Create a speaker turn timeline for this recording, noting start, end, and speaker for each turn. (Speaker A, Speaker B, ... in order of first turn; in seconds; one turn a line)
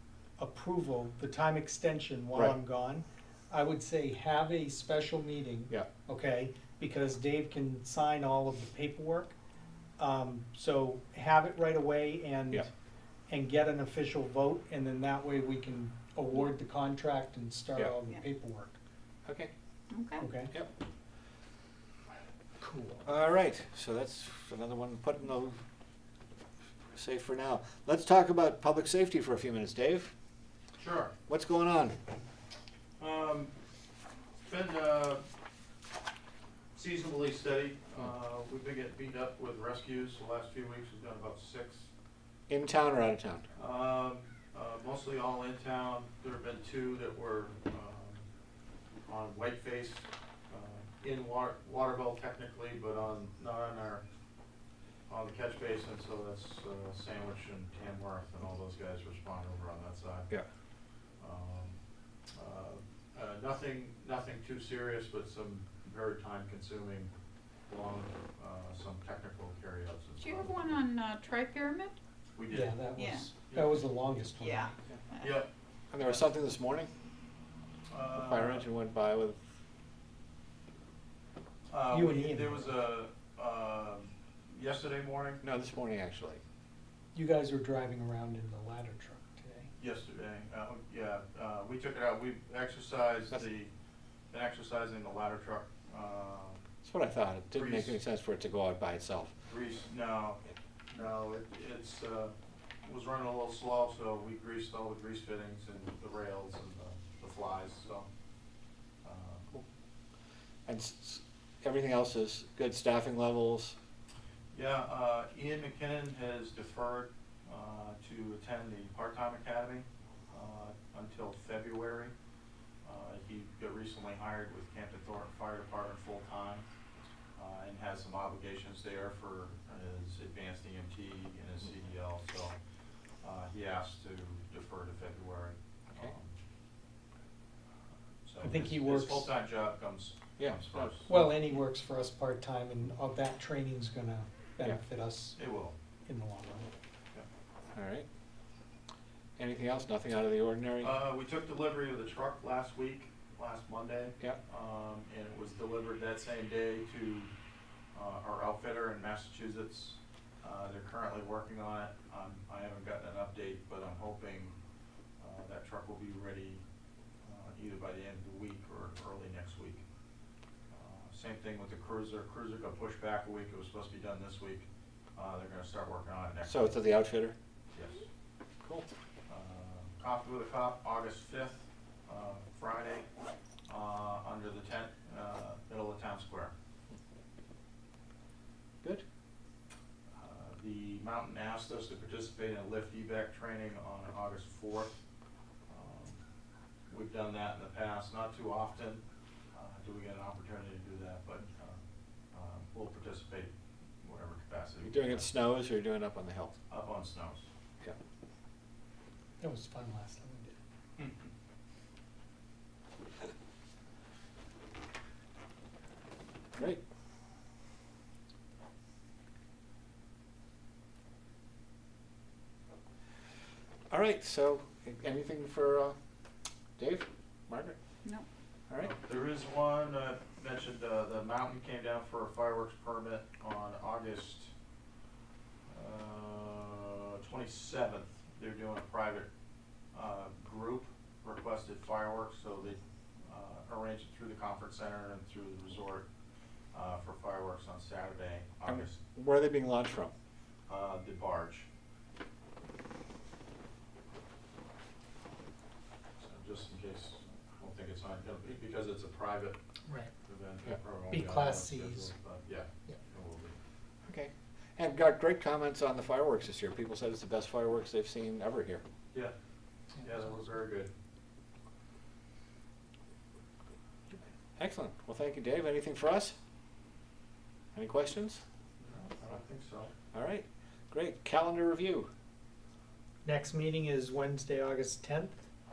Speaker A: 0.4-9.3
Speaker A: 10.0-12.7
Speaker A: 13.3-18.7
Speaker B: 19.2-19.5
Speaker C: 19.9-20.2
Speaker A: 20.2-20.5
Speaker A: 22.6-23.1
Speaker B: 23.0-25.6
Speaker B: 26.9-30.1
Speaker D: 30.8-31.1
Speaker B: 31.3-32.0
Speaker D: 33.0-33.5
Speaker D: 34.4-35.2
Speaker D: 36.7-41.9
Speaker B: 42.5-43.4
Speaker D: 43.5-48.2
Speaker D: 49.1-54.0
Speaker D: 55.1-60.3
Speaker D: 61.2-61.8
Speaker D: 62.4-67.1
Speaker D: 67.7-70.8
Speaker C: 70.2-72.0
Speaker D: 72.3-72.8
Speaker A: 72.5-74.7
Speaker C: 73.0-73.3
Speaker D: 73.4-73.9
Speaker C: 74.4-75.4
Speaker D: 75.2-76.3
Speaker B: 75.9-76.9
Speaker D: 77.9-78.7
Speaker B: 78.1-79.4
Speaker D: 81.7-85.4
Speaker A: 81.9-82.7
Speaker B: 85.4-86.4
Speaker A: 87.1-89.7
Speaker D: 89.8-93.7
Speaker D: 94.3-96.6
Speaker B: 96.8-99.3
Speaker D: 97.5-98.0
Speaker D: 99.5-108.1
Speaker D: 109.0-109.5
Speaker B: 110.7-113.7
Speaker D: 114.5-122.1
Speaker D: 122.8-126.7
Speaker D: 127.3-132.5
Speaker D: 133.2-136.3
Speaker D: 138.2-141.2
Speaker A: 138.4-139.3
Speaker B: 140.4-140.9
Speaker A: 141.1-145.4
Speaker D: 145.3-145.7
Speaker A: 146.1-146.7
Speaker B: 147.7-148.1
Speaker B: 149.4-150.9
Speaker D: 150.8-157.3
Speaker D: 157.9-164.5
Speaker D: 165.2-166.6
Speaker D: 167.2-169.8
Speaker D: 170.7-176.8
Speaker B: 176.4-177.3
Speaker D: 177.7-178.0
Speaker D: 179.3-183.1
Speaker D: 183.7-186.5
Speaker D: 190.2-195.0
Speaker D: 195.7-196.2
Speaker D: 196.9-199.0
Speaker D: 199.5-201.8
Speaker D: 202.3-205.3
Speaker B: 204.8-206.5
Speaker D: 206.7-207.5
Speaker A: 209.4-210.6
Speaker D: 211.0-211.3
Speaker B: 223.9-225.9
Speaker B: 226.8-227.8
Speaker D: 228.8-234.5
Speaker D: 235.7-239.3
Speaker D: 239.9-246.1
Speaker D: 246.7-249.0
Speaker B: 248.6-250.1
Speaker D: 250.7-251.7
Speaker D: 256.2-259.6
Speaker A: 259.9-260.1
Speaker D: 260.2-263.6
Speaker A: 261.1-262.1
Speaker B: 264.0-268.8
Speaker A: 269.9-270.5
Speaker D: 270.0-270.9
Speaker B: 274.6-276.4
Speaker B: 277.7-278.4
Speaker D: 278.8-279.9
Speaker B: 280.1-282.1
Speaker A: 283.2-285.5